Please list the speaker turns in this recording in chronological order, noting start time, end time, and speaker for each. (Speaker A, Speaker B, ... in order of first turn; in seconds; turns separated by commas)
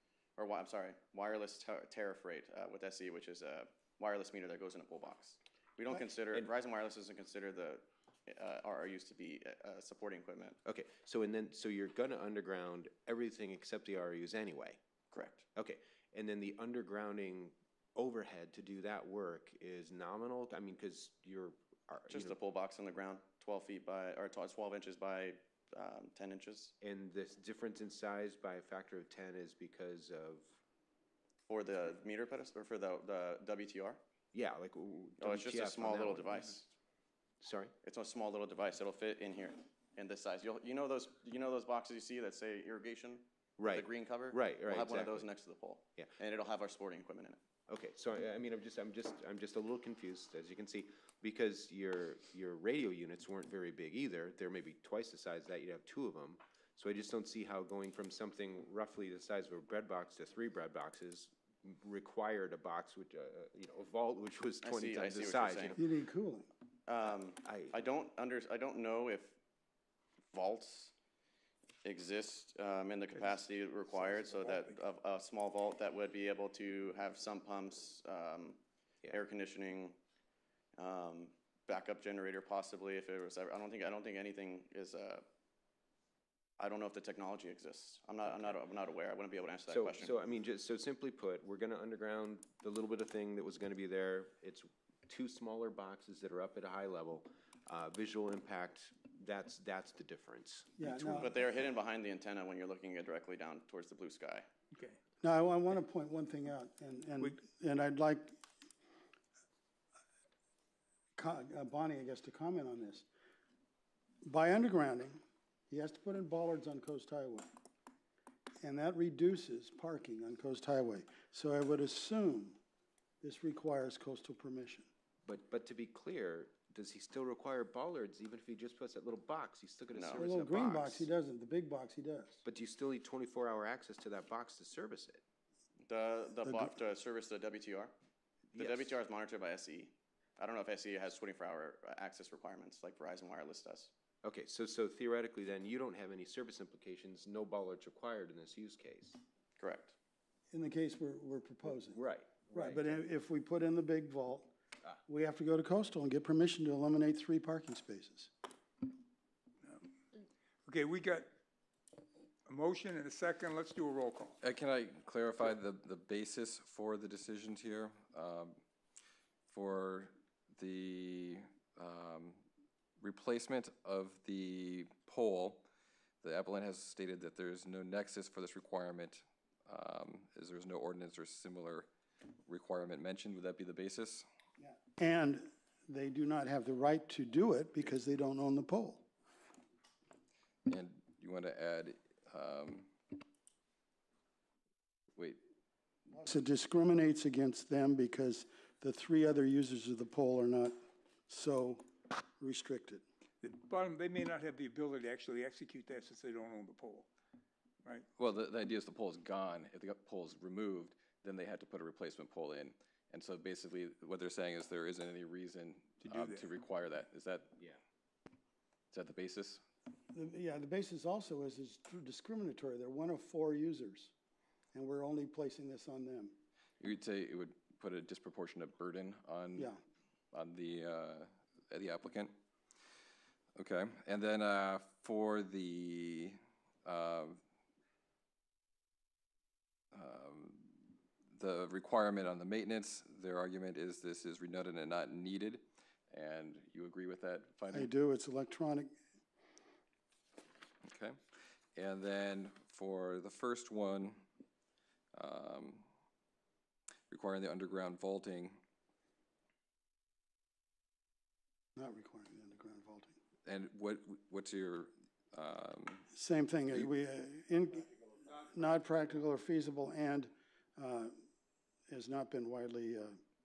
Speaker A: 0.4-10.6, Speaker B: 10.6-14.8, Speaker A: 15.1-15.4, Speaker B: 15.5-22.4, Speaker A: 22.1-26.7, Speaker B: 26.8-30.6, Speaker A: 31.5-34.0, Speaker B: 34.3-36.5, Speaker A: 35.2-36.7, Speaker B: 37.4-37.7, Speaker A: 37.8-47.4, Speaker B: 43.6-45.3, Speaker B: 47.7-65.8, Speaker A: 64.6-65.8, Speaker C: 65.8-66.5, Speaker A: 66.9-69.3, Speaker B: 67.4-67.8, Speaker A: 70.3-70.9, Speaker A: 71.8-80.0, Speaker A: 80.8-85.2, Speaker A: 86.6-90.1, Speaker B: 88.3-88.6, Speaker B: 89.7-101.2, Speaker C: 100.8-101.5, Speaker A: 101.1-104.5, Speaker C: 105.2-108.3, Speaker C: 111.2-113.1, Speaker C: 114.2-115.2, Speaker C: 115.7-117.5, Speaker C: 118.6-122.6, Speaker C: 123.2-124.9, Speaker B: 125.2-131.1, Speaker A: 129.9-130.2, Speaker C: 130.2-132.4, Speaker B: 132.4-135.2, Speaker A: 135.8-137.9, Speaker B: 138.5-139.0, Speaker A: 138.6-143.9, Speaker B: 144.2-149.2, Speaker A: 149.6-149.9, Speaker C: 150.5-152.0, Speaker B: 151.9-153.0, Speaker C: 152.5-154.5, Speaker C: 155.1-158.3, Speaker D: 160.7-161.3, Speaker D: 162.4-164.4, Speaker E: 164.4-168.6, Speaker E: 169.5-172.4, Speaker E: 173.0-175.7, Speaker E: 176.2-181.9, Speaker E: 182.5-184.3, Speaker C: 184.6-189.1, Speaker E: 190.7-192.9, Speaker C: 196.1-200.8, Speaker C: 201.3-201.8, Speaker C: 202.4-203.0, Speaker D: 203.4-207.1, Speaker E: 208.2-217.7, Speaker D: 216.0-216.5, Speaker E: 218.9-219.6, Speaker C: 220.1-224.1, Speaker C: 224.7-226.4, Speaker E: 226.8-229.7, Speaker E: 230.3-232.3, Speaker E: 233.6-237.4, Speaker E: 239.9-240.8, Speaker E: 241.3-247.9, Speaker C: 247.7-248.9, Speaker E: 250.8-251.2, Speaker E: 251.7-254.2, Speaker E: 255.1-255.8, Speaker E: 257.1-258.6, Speaker C: 261.8-263.1, Speaker E: 263.4-266.1, Speaker C: 266.1-271.1, Speaker C: 271.9-273.2